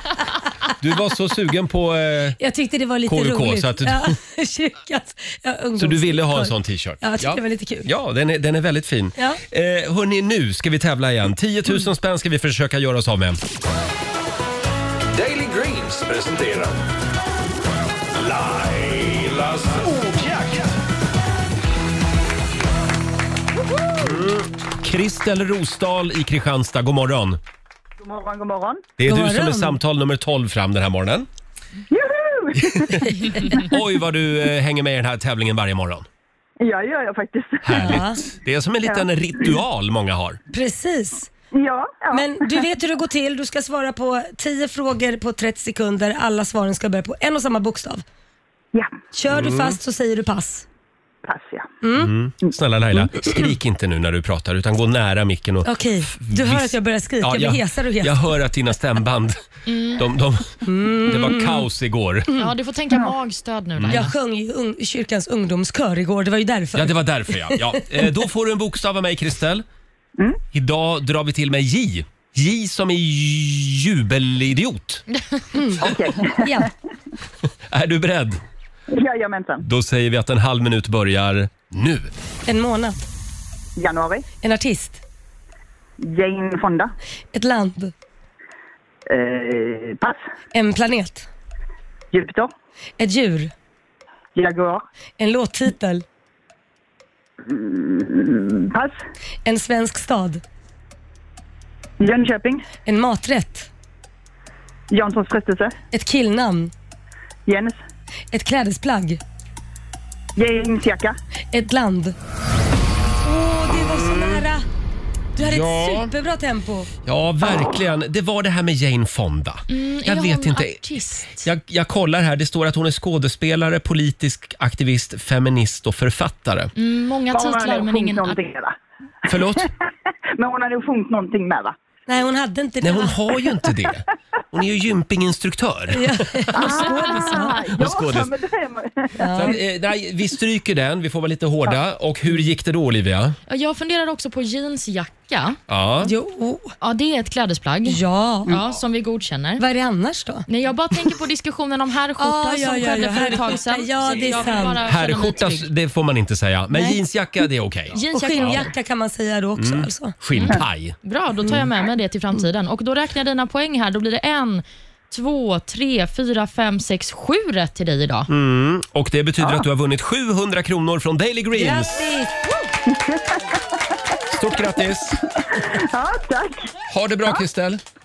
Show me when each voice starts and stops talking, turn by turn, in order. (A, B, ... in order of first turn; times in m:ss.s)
0:00.8-0:02.4 A
0:02.4-0:07.9 B
0:03.0-0:04.1 A
0:05.8-0:13.4 A
0:15.1-0:16.8 C
0:18.1-0:20.8 C
0:24.0-0:27.4 A
0:28.0-0:28.9 D
0:29.0-0:31.3 A
0:29.0-0:29.8 B
0:31.9-0:33.6 D
0:32.6-0:36.0 A
0:36.6-0:38.0 D
0:37.6-0:40.4 A
0:37.8-0:38.2 B
0:40.5-0:41.3 B
0:41.5-0:42.6 D
0:42.1-0:48.0 B
0:48.7-0:49.0 D
0:49.1-0:50.6 B
0:49.3-0:49.8 A
0:51.2-0:51.7 D
0:51.8-0:52.1 B
0:51.9-0:59.4 A
0:55.6-0:58.2 B
0:59.6-1:00.0 E
0:59.9-1:02.3 A
1:00.6-1:01.6 B
1:02.4-1:04.1 E
1:03.8-1:04.0 A
1:03.9-1:07.7 B
1:06.7-1:09.6 A
1:10.5-1:15.0 A
1:15.5-1:16.7 B
1:15.7-1:16.7 D
1:17.7-1:18.4 A
1:18.9-1:19.6 D
1:19.6-1:22.1 A
1:22.4-1:23.0 B
1:23.8-1:24.3 D
1:24.4-1:25.0 B
1:26.0-1:26.9 D
1:27.3-1:27.9 B
1:29.1-1:30.2 D
1:30.5-1:31.3 B
1:32.1-1:32.5 D
1:33.0-1:33.5 B
1:34.3-1:34.8 D
1:35.2-1:36.0 B
1:37.4-1:39.0 D
1:39.4-1:40.4 B
1:42.0-1:42.7 D
1:42.8-1:43.7 B
1:44.9-1:45.8 D
1:45.9-1:46.7 B
1:47.4-1:47.8 D
1:48.3-1:49.2 B
1:50.4-1:51.1 D
1:51.5-1:52.2 B
1:53.2-1:54.6 B
1:55.4-1:56.9 B
1:55.4-1:56.1 A
1:57.0-2:06.7 A
1:59.7-2:01.5 E
2:06.8-2:08.4 E
2:07.3-2:08.8 D
2:09.3-2:09.7 A
2:09.4-2:09.7 D
2:10.4-2:11.8 D
2:12.1-2:13.2 B
2:12.8-2:18.3 A
2:15.9-2:17.7 B
2:16.6-2:19.6 D
2:19.2-2:19.6 B
2:19.3-2:23.4 A
2:23.5-2:25.6 E
2:25.7-2:26.1 A
2:26.0-2:26.7 B
2:26.8-2:29.6 E
2:27.9-2:28.6 B
2:29.6-2:30.4 B
2:30.5-2:35.7 E
2:32.2-2:34.8 B
2:34.8-2:38.6 A
2:36.7-2:37.0 B
2:37.9-2:40.1 B
2:38.1-2:38.7 E
2:39.6-2:40.9 A
2:40.3-2:48.3 E
2:48.3-2:52.1 A
2:51.5-2:52.5 B
2:52.9-2:53.4 D
2:54.3-2:55.2 A
2:55.4-2:56.7 D
2:56.9-2:57.8 A